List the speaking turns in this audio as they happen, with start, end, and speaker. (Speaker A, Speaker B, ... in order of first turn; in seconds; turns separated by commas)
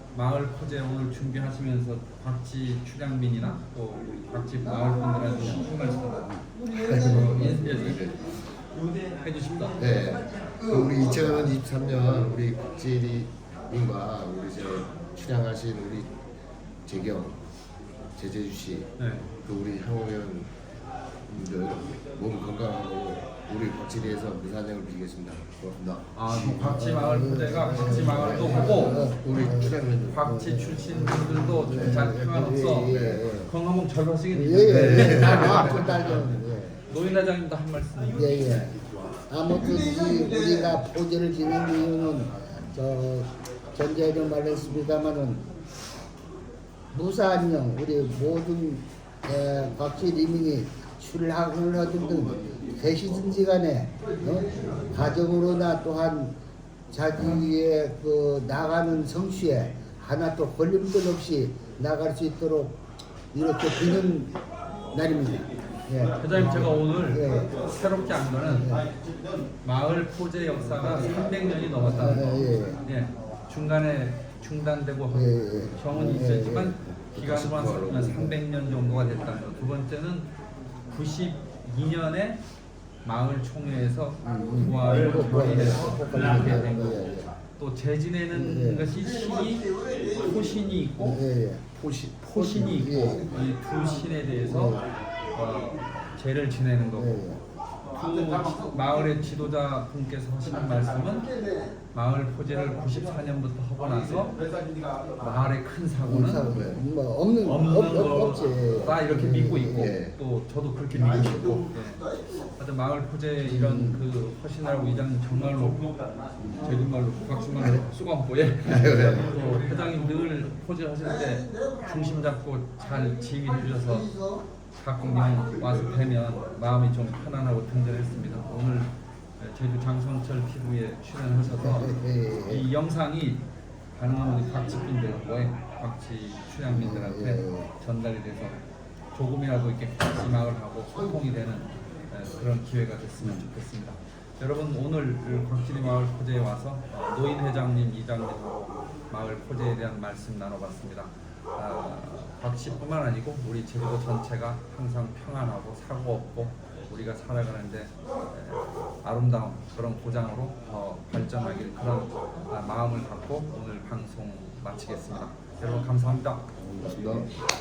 Speaker A: 0.1-8.1, Speaker B: 6.7-8.3, Speaker A: 9.2-9.9, Speaker B: 9.8-16.2, Speaker B: 16.9-17.4, Speaker B: 18.2-18.9, Speaker A: 19.0-19.3, Speaker B: 19.4-20.5, Speaker B: 21.3-26.2, Speaker A: 26.1-29.1, Speaker C: 26.3-33.5, Speaker B: 27.9-30.3, Speaker A: 30.1-36.3, Speaker B: 32.7-33.3, Speaker C: 34.3-36.8, Speaker B: 34.6-35.9, Speaker A: 36.9-38.5, Speaker C: 38.1-45.4, Speaker C: 46.9-56.3, Speaker C: 56.9-62.8, Speaker C: 63.3-64.3, Speaker C: 64.9-67.5, Speaker A: 66.2-68.7, Speaker C: 68.4-68.9, Speaker A: 69.6-80.3, Speaker C: 71.8-72.8, Speaker C: 75.1-77.0, Speaker B: 77.1-78.3, Speaker A: 80.9-82.4, Speaker A: 83.0-91.2, Speaker C: 84.2-87.3, Speaker C: 88.3-88.9, Speaker C: 91.1-91.7, Speaker B: 91.8-92.2, Speaker A: 92.2-97.2, Speaker C: 92.3-93.3, Speaker C: 94.3-94.8, Speaker C: 97.0-97.4, Speaker A: 97.9-101.3, Speaker A: 101.9-104.4, Speaker A: 105.2-106.5, Speaker C: 106.0-109.9, Speaker B: 106.4-106.8, Speaker A: 107.4-115.8, Speaker B: 109.6-110.2, Speaker C: 113.4-114.0, Speaker A: 116.5-124.1, Speaker B: 118.7-119.3, Speaker A: 124.8-138.6, Speaker C: 131.6-132.7, Speaker C: 136.7-137.7, Speaker A: 139.1-166.5, Speaker C: 143.2-143.4, Speaker B: 166.6-167.3